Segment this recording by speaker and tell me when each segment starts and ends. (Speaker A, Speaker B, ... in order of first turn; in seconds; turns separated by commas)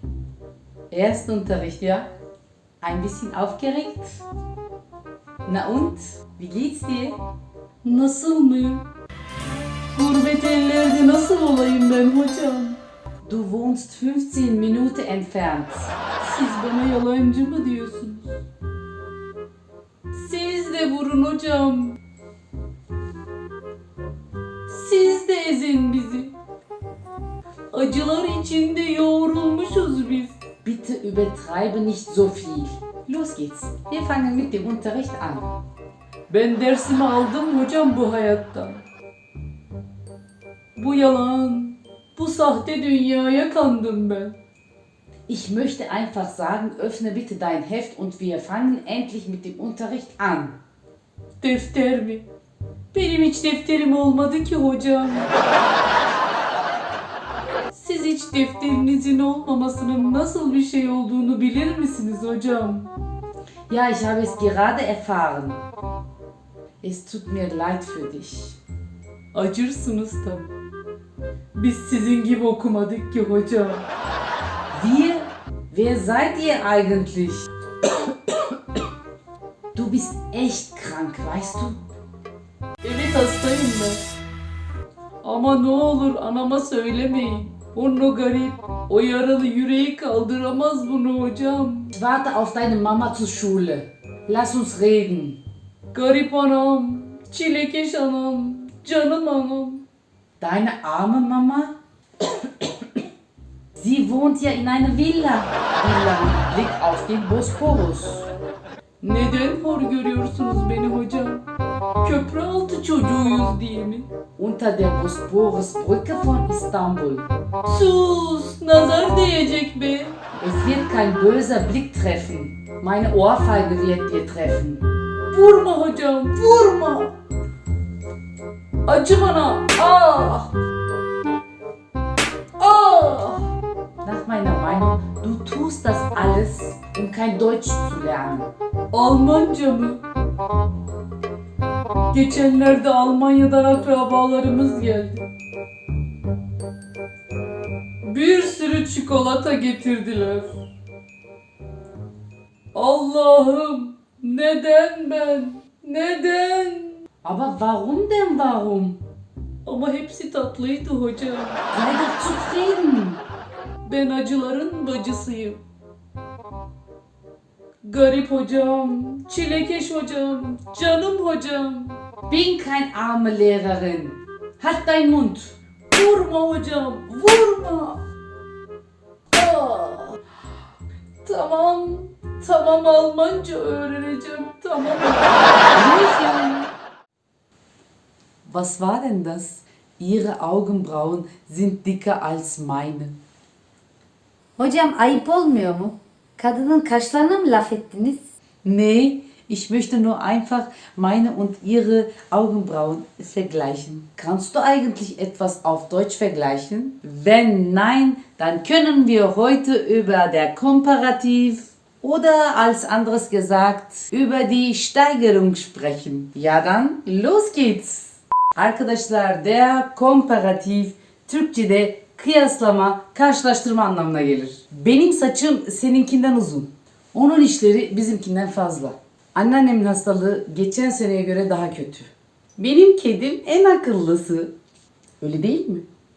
Speaker A: 0.9-2.1, Speaker A: 2.8-4.2, Speaker A: 5.4-7.2, Speaker B: 7.8-8.8, Speaker B: 9.9-12.8, Speaker A: 13.2-15.9, Speaker B: 16.2-18.3, Speaker B: 20.1-22.0, Speaker B: 24.7-26.3, Speaker B: 27.7-30.4, Speaker A: 30.6-35.6, Speaker B: 36.3-38.8, Speaker B: 40.8-44.4, Speaker A: 45.3-50.5, Speaker B: 51.4-52.2, Speaker B: 52.9-55.3, Speaker B: 57.7-62.9, Speaker A: 63.7-65.6, Speaker A: 66.8-68.6, Speaker B: 69.3-70.5, Speaker B: 71.5-73.8, Speaker A: 74.7-77.4, Speaker A: 79.7-81.8, Speaker B: 82.8-84.0, Speaker B: 85.2-91.9, Speaker A: 91.9-95.4, Speaker B: 95.9-99.8, Speaker A: 100.4-101.7, Speaker A: 103.8-108.3, Speaker B: 109.0-111.5, Speaker B: 112.0-114.1, Speaker A: 114.4-117.2, Speaker B: 117.7-120.2, Speaker A: 120.4-124.8, Speaker B: 125.3-127.1, Speaker B: 128.9-130.5, Speaker B: 132.6-133.5, Speaker A: 134.0-138.5, Speaker B: 138.9-140.0, Speaker B: 142.1-145.2, Speaker B: 148.0-150.6, Speaker B: 152.7-157.0, Speaker A: 157.2-159.0, Speaker B: 159.6-161.6, Speaker A: 161.7-163.2, Speaker B: 163.8-165.6, Speaker B: 167.8-172.0, Speaker A: 172.3-175.6, Speaker B: 175.9-178.0, Speaker B: 179.3-180.2, Speaker B: 181.2-185.3, Speaker A: 185.7-186.7, Speaker A: 188.4-193.2, Speaker C: 194.6-198.2, Speaker A: 198.6-234.5, Speaker A: 235.2-235.8